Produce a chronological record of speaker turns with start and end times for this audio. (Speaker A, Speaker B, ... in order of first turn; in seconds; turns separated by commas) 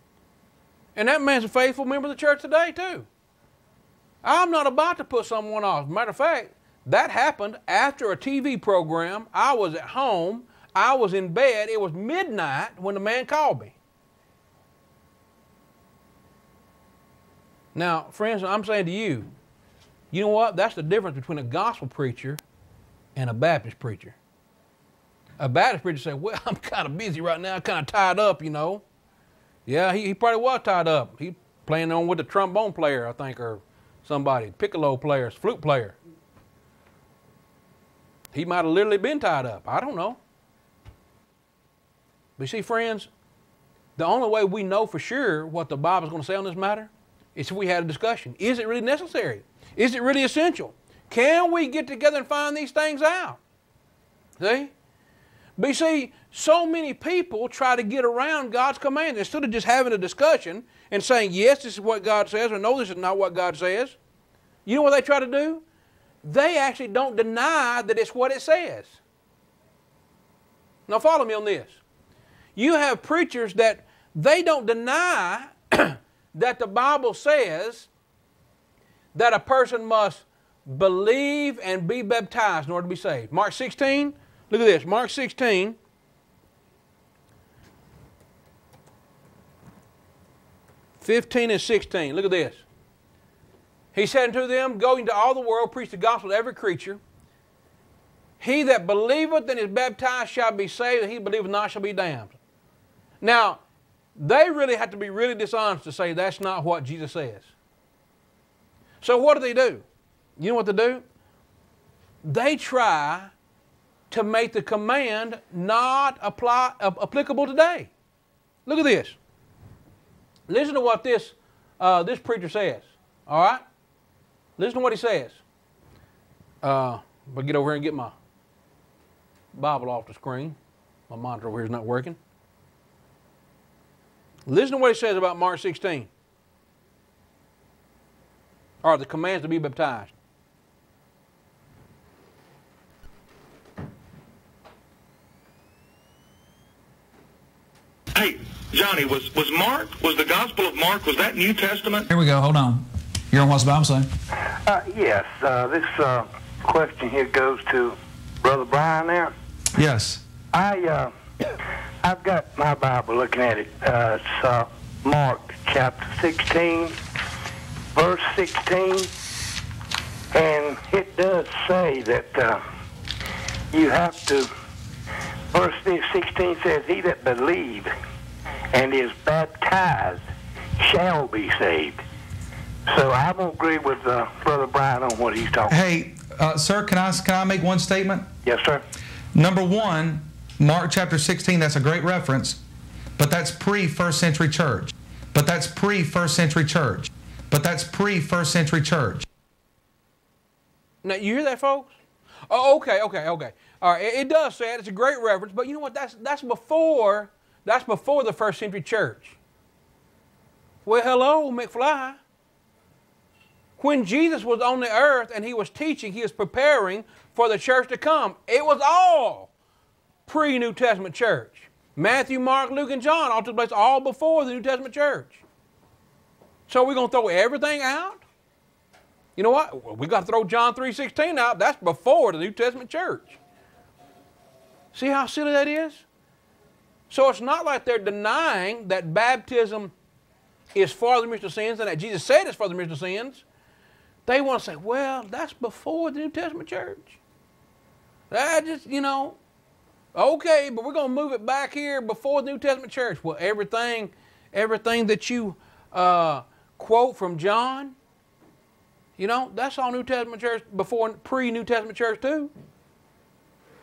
Speaker A: 0.9-3.1, Speaker A: 4.2-13.7, Speaker A: 17.7-19.3, Speaker A: 20.1-22.4, Speaker A: 23.1-24.1, Speaker A: 25.4-28.8, Speaker A: 29.7-36.0, Speaker A: 38.3-40.2, Speaker A: 42.4-43.1, Speaker A: 44.0-53.4, Speaker A: 54.4-54.7, Speaker A: 55.6-64.0, Speaker A: 64.7-65.6, Speaker A: 66.2-69.0, Speaker A: 70.9-71.8, Speaker A: 72.5-77.9, Speaker A: 79.1-85.8, Speaker A: 91.0-92.6, Speaker A: 93.9-97.0, Speaker A: 98.4-102.4, Speaker A: 103.2-103.6, Speaker A: 104.2-107.5, Speaker A: 109.0-109.8, Speaker A: 110.4-111.0, Speaker A: 112.2-113.3, Speaker A: 114.1-117.9, Speaker A: 118.7-119.2, Speaker A: 120.5-123.6, Speaker A: 124.6-125.4, Speaker A: 126.6-128.1, Speaker A: 129.5-130.6, Speaker A: 131.1-132.2, Speaker A: 134.5-136.1, Speaker A: 138.8-140.1, Speaker B: 148.1-152.1, Speaker C: 152.1-154.1, Speaker D: 154.7-159.3, Speaker C: 159.7-160.2, Speaker D: 160.5-161.2, Speaker D: 162.0-166.9, Speaker D: 167.9-169.1, Speaker D: 170.3-172.6, Speaker D: 173.7-174.5, Speaker D: 175.5-177.9, Speaker D: 178.7-180.2, Speaker D: 180.8-182.0, Speaker D: 182.9-185.7, Speaker C: 185.7-188.3, Speaker D: 188.4-188.8, Speaker C: 189.3-192.6, Speaker C: 193.2-199.3, Speaker A: 201.0-201.9, Speaker A: 202.5-209.4, Speaker A: 210.8-212.2, Speaker A: 213.8-219.5, Speaker A: 220.2-225.4, Speaker A: 226.7-228.2, Speaker A: 229.3-233.4, Speaker A: 234.9-236.0, Speaker A: 237.1-239.9, Speaker A: 240.7-243.4, Speaker A: 244.2-247.2, Speaker A: 248.3-249.4, Speaker A: 250.1-257.9, Speaker A: 259.2-262.5